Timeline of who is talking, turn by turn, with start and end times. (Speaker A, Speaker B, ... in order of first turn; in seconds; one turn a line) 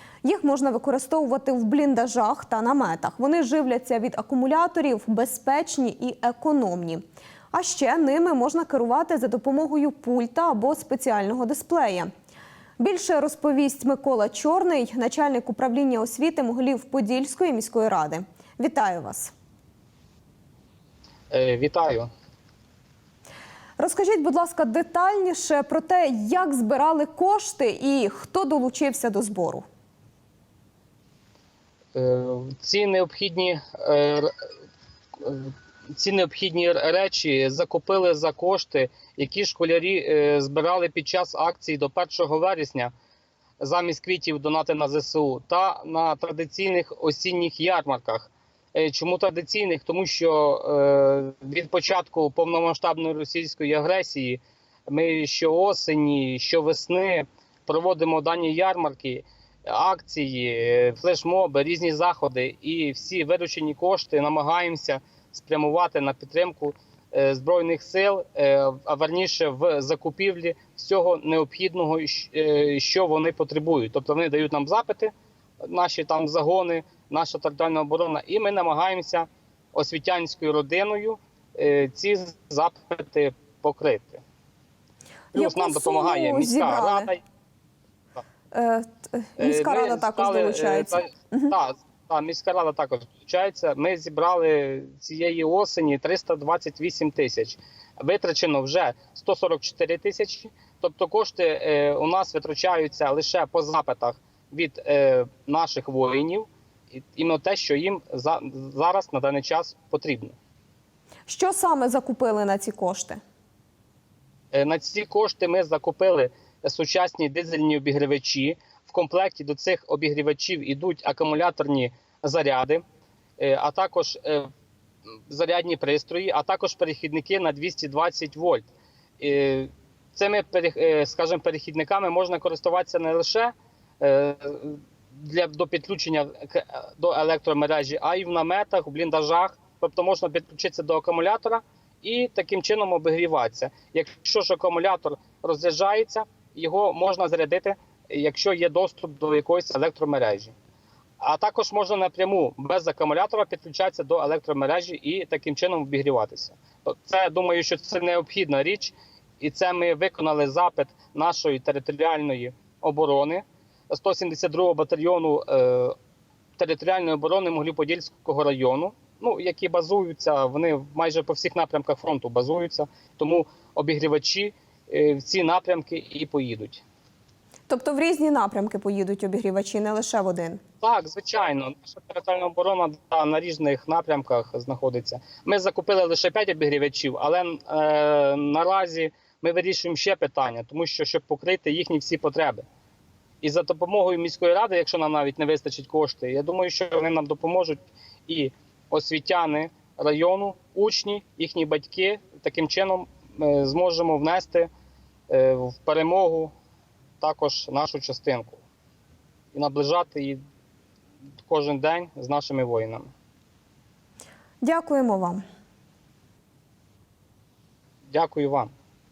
Speaker A: 0.2-12.1
Speaker A: 12.8-19.3
Speaker B: 21.3-22.1
Speaker A: 23.8-29.6
Speaker B: 31.9-34.3
Speaker B: 35.2-42.9
Speaker B: 43.6-84.2
Speaker B: 85.3-87.2
Speaker A: 85.3-87.1
Speaker A: 88.5-91.5
Speaker B: 89.4-110.3
Speaker A: 111.3-113.2
Speaker B: 114.5-122.8
Speaker B: 123.4-124.5
Speaker B: 125.3-128.7
Speaker B: 129.2-150.5
Speaker B: 151.2-165.9
Speaker B: 166.6-176.8
Speaker A: 177.7-180.6
Speaker B: 180.8-192.7
Speaker B: 193.4-204.7
Speaker B: 205.3-206.5
Speaker B: 207.2-208.6
Speaker B: 209.5-210.4
Speaker B: 211.4-213.1
Speaker A: 214.6-215.4
Speaker B: 218.1-218.7